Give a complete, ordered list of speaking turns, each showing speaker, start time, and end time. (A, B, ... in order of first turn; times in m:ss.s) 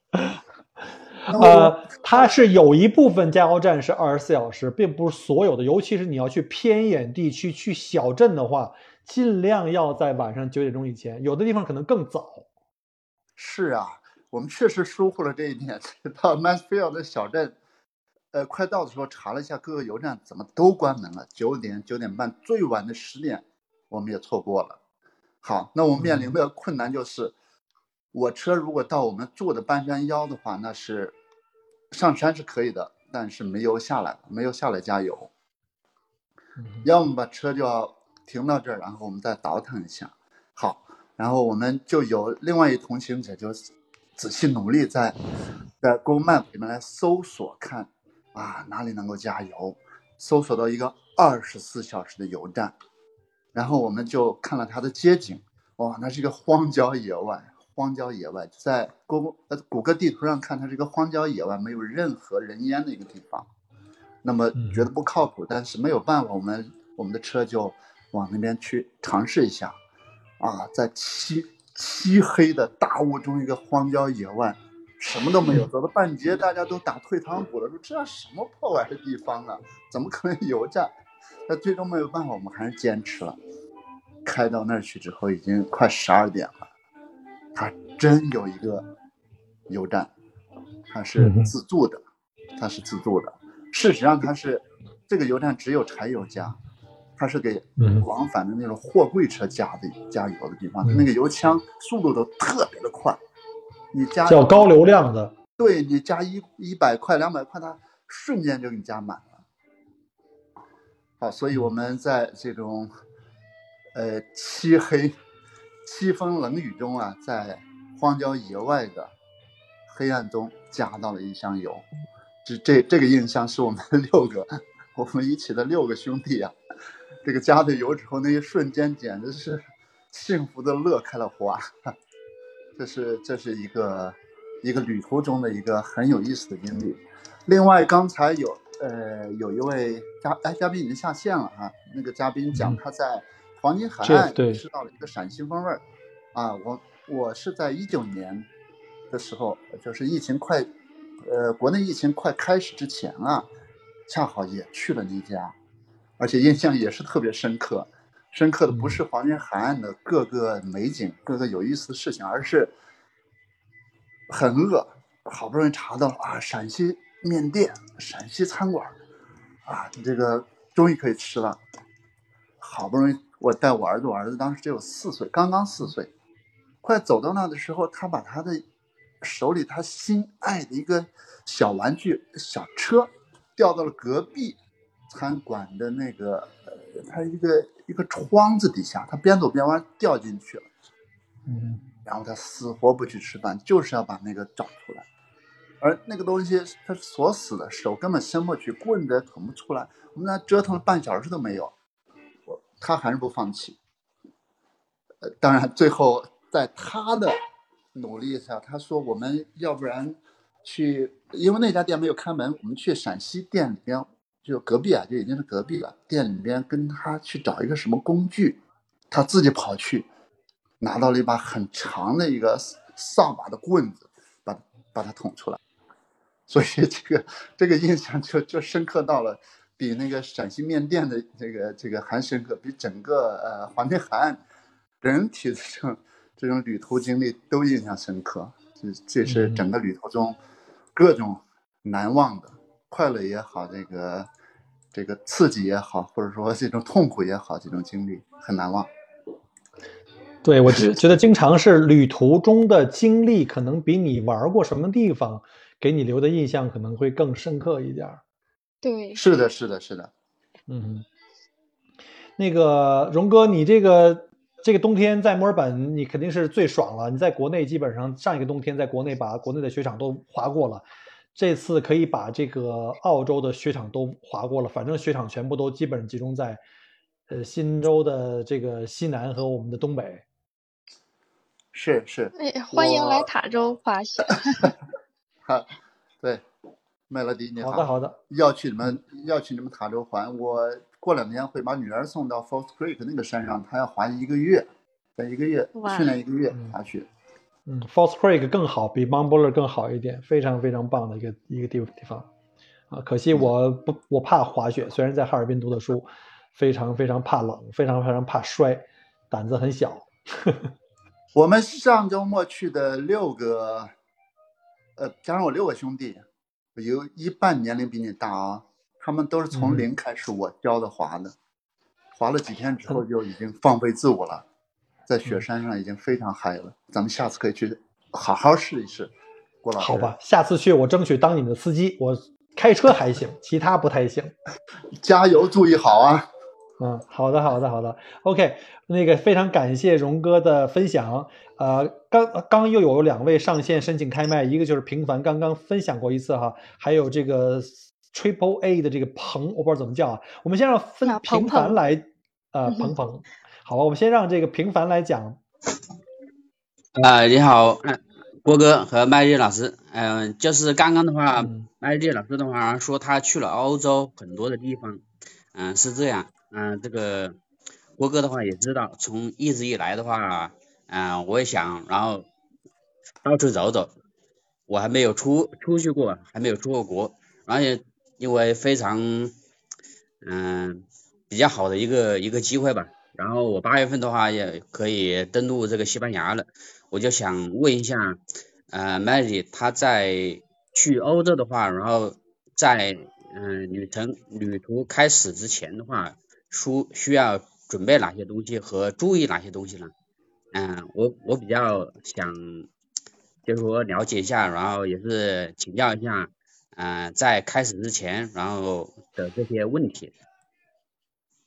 0:00.1-0:00.4 A
0:01.3-0:02.2 B
0:01.3-0:12.5 A
0:13.4-0:17.6 B
0:18.3-0:24.8 B
0:25.4-0:27.4 B
0:26.0-0:26.4 A
0:28.1-0:31.2 B
0:31.9-0:35.3 B
0:36.6-0:36.8 A
0:36.8-0:43.6 B
0:44.2-0:45.2 B
0:45.8-0:52.8 B
0:53.5-1:03.5 B
1:04.2-1:09.8 B
1:04.6-1:04.9 A
1:10.4-1:20.9 B
1:21.5-1:23.4 B
1:24.2-1:26.6 B
1:27.6-1:28.9 B
1:29.7-1:30.1 B
1:30.9-1:32.0 B
1:31.2-1:31.5 A
1:32.6-1:36.6 B
1:37.2-1:43.2 B
1:37.8-1:38.0 A
1:43.9-1:44.8 B
1:44.3-1:45.3 A
1:45.6-1:49.4 B
1:51.2-1:52.9 B
1:53.9-1:55.1 B
1:55.8-1:59.1 B
1:59.9-2:01.9 B
2:02.4-2:06.6 B
2:07.2-2:11.9 B
2:12.8-2:25.8 B
2:24.0-2:24.6 A
2:26.3-2:28.5 B
2:29.1-2:30.7 B
2:31.2-2:33.5 B
2:34.1-2:35.5 B
2:36.2-2:42.7 B
2:38.7-2:39.0 A
2:44.3-2:49.0 B
2:49.7-2:51.6 B
2:52.6-2:56.1 B
2:56.8-2:58.6 B
2:59.2-3:04.6 B
3:05.1-3:10.7 B
3:11.5-3:11.8 A
3:12.0-3:15.1 B
3:15.8-3:21.7 B
3:22.5-3:23.8 B
3:25.3-3:27.4 B
3:27.9-3:38.6 B
3:39.1-3:40.1 B
3:40.8-3:45.6 B
3:46.5-3:54.4 B
3:55.0-4:00.4 B
3:59.3-3:59.6 A
4:01.0-4:04.3 B
4:04.9-4:08.9 B
4:10.4-4:18.2 A
4:18.8-4:19.2 C
4:19.2-4:20.1 B
4:20.7-4:21.0 A
4:22.4-4:36.6 A
4:37.3-4:40.2 A
4:41.7-4:43.3 B
4:42.4-4:44.7 C
4:47.1-4:57.1 B
4:47.6-4:48.2 A
4:55.8-4:56.1 C
4:57.7-5:02.3 A
5:02.9-5:10.7 A
5:11.4-5:13.9 B
5:15.0-5:16.2 B
5:16.8-5:21.4 B
5:19.5-5:19.9 A
5:22.2-5:24.4 B
5:25.1-5:29.1 B
5:29.6-5:30.1 B
5:29.8-5:34.3 A
5:35.0-5:36.3 B
5:36.8-5:55.4 A
5:51.0-5:51.8 C
5:57.0-6:07.4 D
6:01.3-6:01.7 A
6:08.0-6:12.3 D
6:13.2-6:13.9 D
6:14.7-6:19.3 D
6:20.2-6:39.9 D
6:40.5-6:42.7 D
6:43.5-6:50.1 D